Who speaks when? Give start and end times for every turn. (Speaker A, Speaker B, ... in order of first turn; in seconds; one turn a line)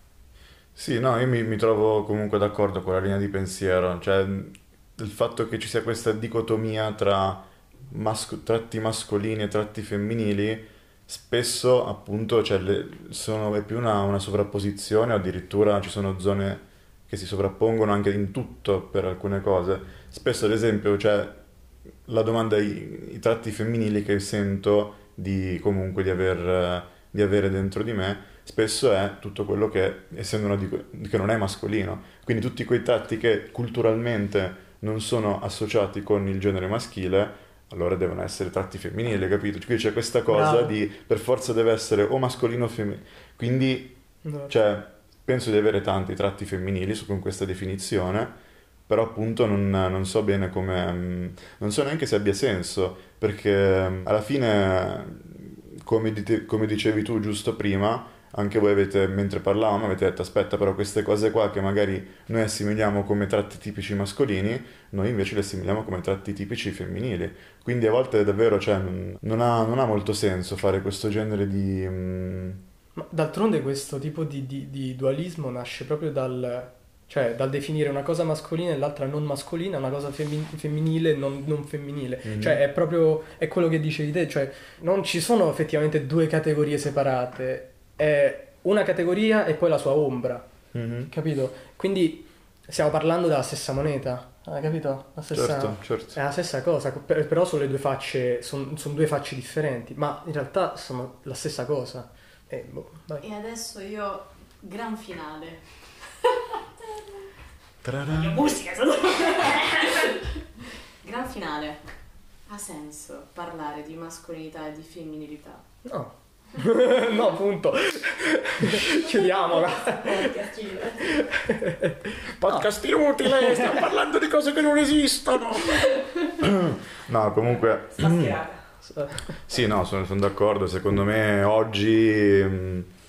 Speaker A: 0.8-21.4
Speaker A: 22.1-48.4
Speaker B: 40.3-40.7
Speaker B: 44.2-44.5
Speaker A: 48.9-72.6
Speaker B: 73.0-90.5
Speaker A: 82.2-82.6
Speaker A: 90.7-91.1
Speaker B: 91.1-103.2
Speaker A: 95.3-96.2
Speaker C: 103.2-106.3
Speaker A: 107.8-108.4
Speaker D: 108.3-109.8
Speaker C: 108.8-110.2
Speaker C: 111.0-115.7
Speaker B: 115.8-120.3
Speaker D: 118.8-121.2
Speaker B: 121.1-123.8
Speaker A: 122.4-125.8
Speaker A: 126.4-128.4
Speaker D: 127.5-128.7
Speaker B: 128.8-129.4
Speaker A: 129.5-132.9